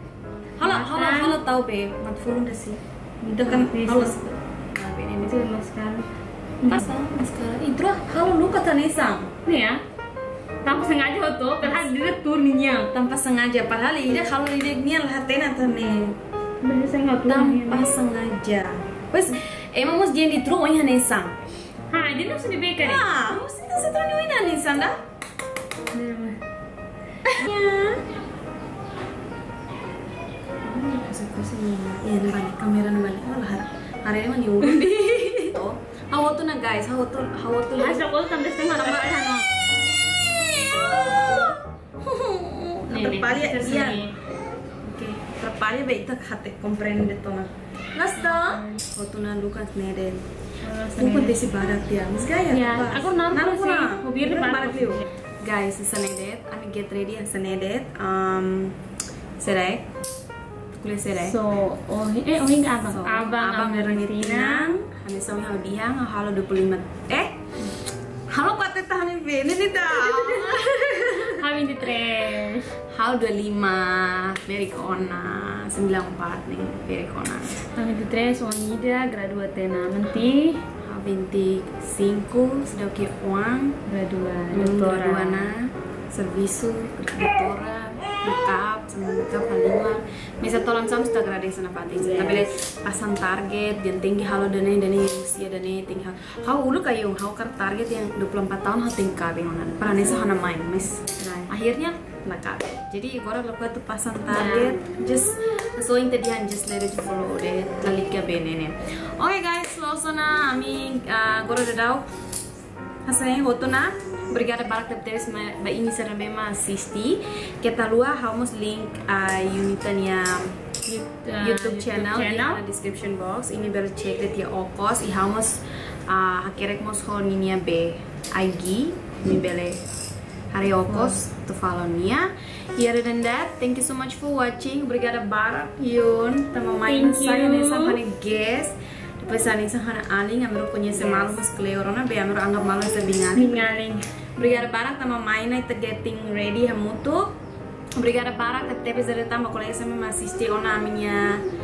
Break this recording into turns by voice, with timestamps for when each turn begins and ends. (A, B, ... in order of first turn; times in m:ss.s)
0:00.6-0:05.4 A
0:00.6-0:01.4 B
0:03.3-0:04.2 B
0:05.2-0:06.1 B
0:06.6-0:06.9 B
0:06.7-0:09.3 A
0:09.4-0:09.8 B
0:10.6-0:12.9 B
0:12.9-0:16.2 A
0:15.7-0:16.1 B
0:16.6-0:17.9 B
0:17.3-0:21.4 A
0:21.9-0:23.1 B
0:22.8-0:25.0 A
0:25.9-0:26.4 B
0:27.3-0:28.0 A
0:30.6-0:38.1 A
0:37.8-0:39.4 B
0:38.7-0:39.3 A
0:40.3-0:44.0 A
0:42.9-0:44.1 B
0:44.8-0:50.2 A
0:48.2-0:48.8 B
0:50.6-0:51.4 B
0:51.0-0:58.8 A
0:52.5-0:55.1 B
0:59.4-0:59.9 A
1:00.7-1:01.4 A
1:01.2-1:04.8 B
1:02.8-1:07.4 A
1:08.3-1:11.4 A
1:10.0-1:12.7 B
1:12.9-1:17.6 A
1:17.7-1:20.6 B
1:20.8-1:23.8 A
1:23.9-1:25.5 B
1:24.5-1:52.1 A
1:32.0-1:32.5 B
1:39.9-1:40.2 B
1:41.2-1:41.5 B
1:44.3-1:44.9 B
1:53.1-2:00.5 A
2:00.9-2:02.6 B
2:01.4-2:09.8 A
2:10.5-2:23.7 A
2:10.8-2:11.2 B
2:16.9-2:18.0 B
2:20.9-2:21.4 B
2:23.4-2:24.5 B
2:24.4-2:27.3 A
2:27.9-2:31.4 A